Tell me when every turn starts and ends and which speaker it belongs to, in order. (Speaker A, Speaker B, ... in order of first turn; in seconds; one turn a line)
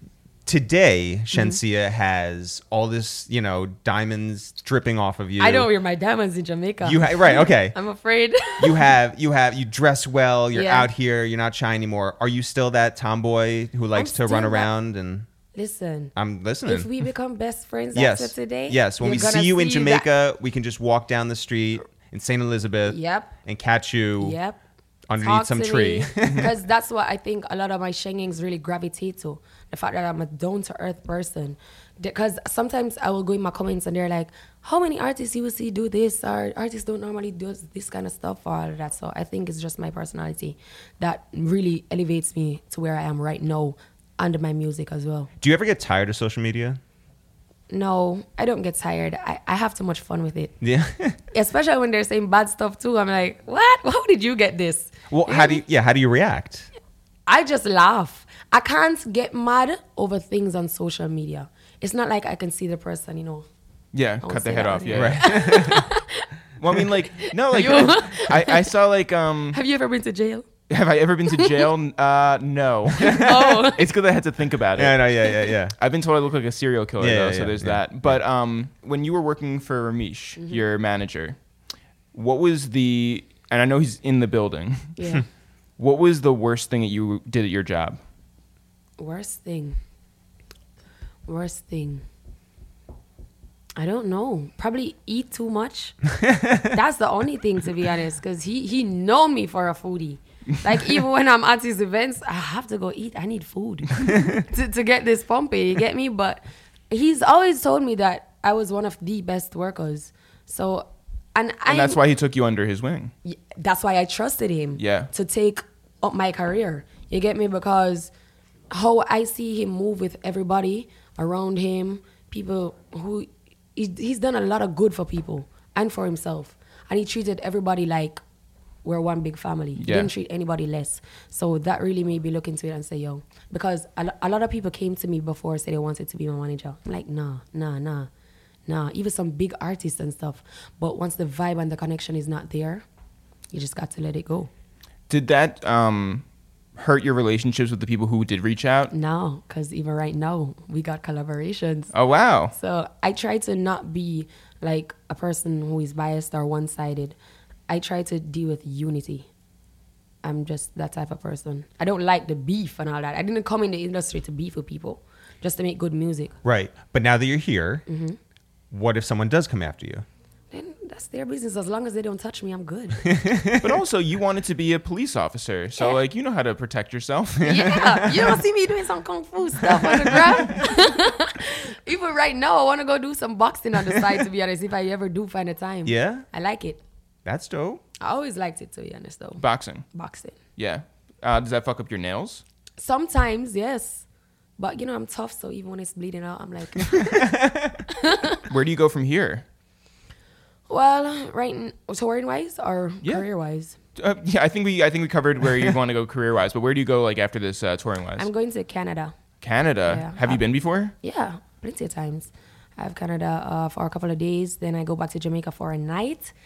Speaker A: 0.5-5.7
Speaker B: 1.3-1.6
Speaker B: 5.4-8.9
Speaker A: 6.8-7.7
Speaker A: 8.6-15.3
Speaker B: 10.5-10.9
Speaker B: 13.9-14.7
Speaker B: 15.5-16.1
Speaker A: 16.1-16.9
Speaker B: 16.6-20.1
Speaker A: 17.9-24.4
Speaker B: 22.9-23.3
Speaker B: 24.2-24.6
Speaker A: 25.1-26.5
Speaker B: 25.2-45.3
Speaker A: 45.4-46.8
Speaker B: 47.7-50.6
Speaker A: 50.6-51.2
Speaker B: 51.3-55.6
Speaker A: 55.1-56.7
Speaker B: 57.3-63.5
Speaker C: 63.9-65.7
Speaker B: 64.2-66.2
Speaker A: 64.9-65.8
Speaker C: 66.6-69.6
Speaker B: 67.1-68.7
Speaker B: 69.5-70.5
Speaker C: 70.7-75.0
Speaker B: 71.3-71.7
Speaker B: 73.1-73.9
Speaker A: 74.8-75.7
Speaker C: 75.8-81.4
Speaker A: 77.0-77.8
Speaker B: 80.4-80.6
Speaker C: 82.1-85.0
Speaker B: 85.0-85.2
Speaker C: 85.8-88.0
Speaker B: 89.0-89.8
Speaker B: 91.3-92.0
Speaker B: 93.8-96.1
Speaker A: 96.3-96.6
Speaker B: 96.7-112.0
Speaker A: 104.0-104.4
Speaker C: 111.7-113.1
Speaker B: 113.2-118.1
Speaker C: 114.8-115.1
Speaker B: 118.7-128.2
Speaker B: 128.8-138.1
Speaker C: 129.8-130.1
Speaker B: 138.7-142.8
Speaker B: 143.5-144.5
Speaker C: 145.1-146.2
Speaker C: 146.8-148.9
Speaker B: 148.9-151.9
Speaker C: 151.9-152.5
Speaker B: 152.5-157.2
Speaker B: 157.7-159.3
Speaker B: 160.2-166.3
Speaker A: 166.4-167.8
Speaker B: 167.9-168.2
Speaker A: 168.7-170.1
Speaker B: 170.5-173.0
Speaker A: 173.0-173.7
Speaker C: 173.6-177.6
Speaker B: 177.4-186.8
Speaker A: 177.5-178.0
Speaker A: 179.7-180.6
Speaker A: 185.8-186.2
Speaker A: 187.2-187.8
Speaker B: 188.0-190.4
Speaker C: 189.4-189.8
Speaker C: 190.6-192.4
Speaker B: 192.8-194.0
Speaker B: 194.6-197.3
Speaker A: 196.9-197.8
Speaker B: 197.9-198.4
Speaker C: 198.5-199.4
Speaker B: 200.7-203.8
Speaker C: 204.0-208.3
Speaker B: 208.2-209.2
Speaker C: 209.4-210.9
Speaker B: 209.9-210.4
Speaker B: 211.0-216.3